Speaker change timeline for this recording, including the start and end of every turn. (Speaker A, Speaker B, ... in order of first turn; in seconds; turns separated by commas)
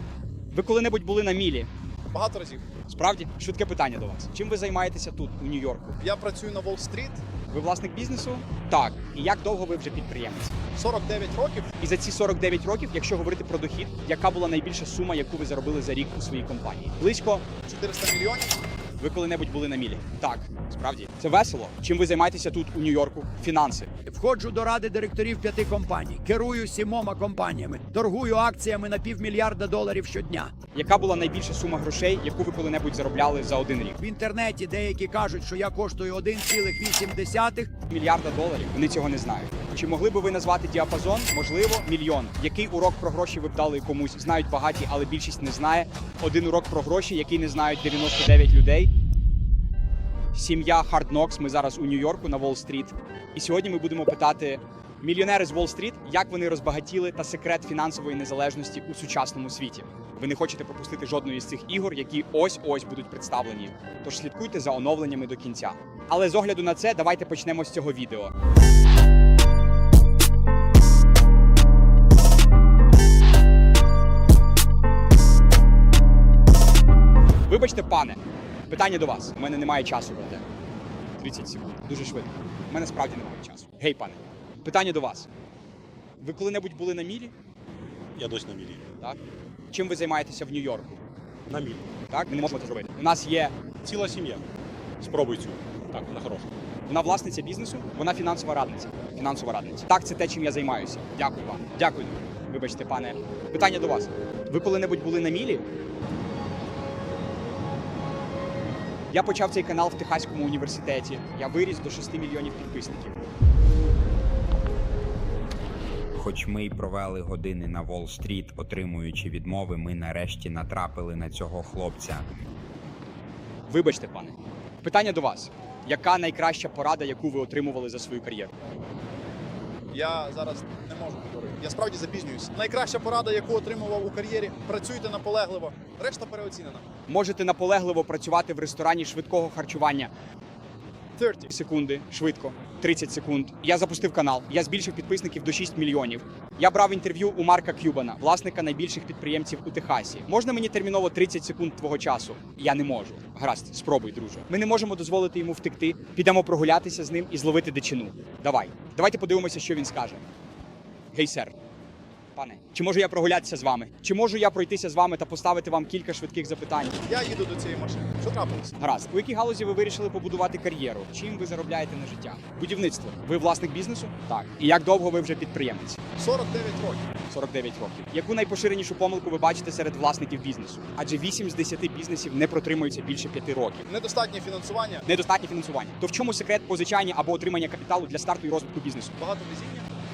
Speaker A: 0.5-1.7, Speaker B: 2.1-2.6, Speaker A: 2.9-6.0, Speaker B: 6.0-7.2, Speaker A: 7.5-10.6, Speaker B: 10.8-11.7, Speaker A: 11.8-17.5, Speaker B: 17.7-18.6, Speaker A: 19.0-23.9, Speaker C: 24.1-30.5, Speaker A: 30.7-34.0, Speaker C: 34.0-37.7, Speaker A: 37.9-48.9, Speaker A: 50.3-68.3, Speaker A: 77.5-78.2, Speaker A: 78.7-80.4, Speaker A: 81.2-85.3, Speaker A: 86.2-87.3, Speaker D: 88.2-88.8, Speaker A: 89.7-91.0, Speaker D: 91.5-91.9, Speaker A: 92.1-93.5, Speaker D: 93.8-94.4, Speaker D: 95.0-96.5, Speaker A: 96.9-105.7, Speaker A: 109.1-113.2, Speaker E: 116.1-122.3, Speaker A: 123.7-128.5, Speaker B: 129.9-136.8, Speaker A: 137.1-140.1, Speaker B: 141.2-141.5, Speaker A: 141.5-160.3, Speaker A: 161.1-161.6, Speaker A: 162.4-167.0, Speaker B: 167.1-168.7, Speaker A: 168.8-176.0, Speaker B: 176.2-177.1, Speaker A: 177.3-183.9, Speaker B: 183.9-185.0, Speaker A: 185.1-189.2, Speaker B: 189.2-189.9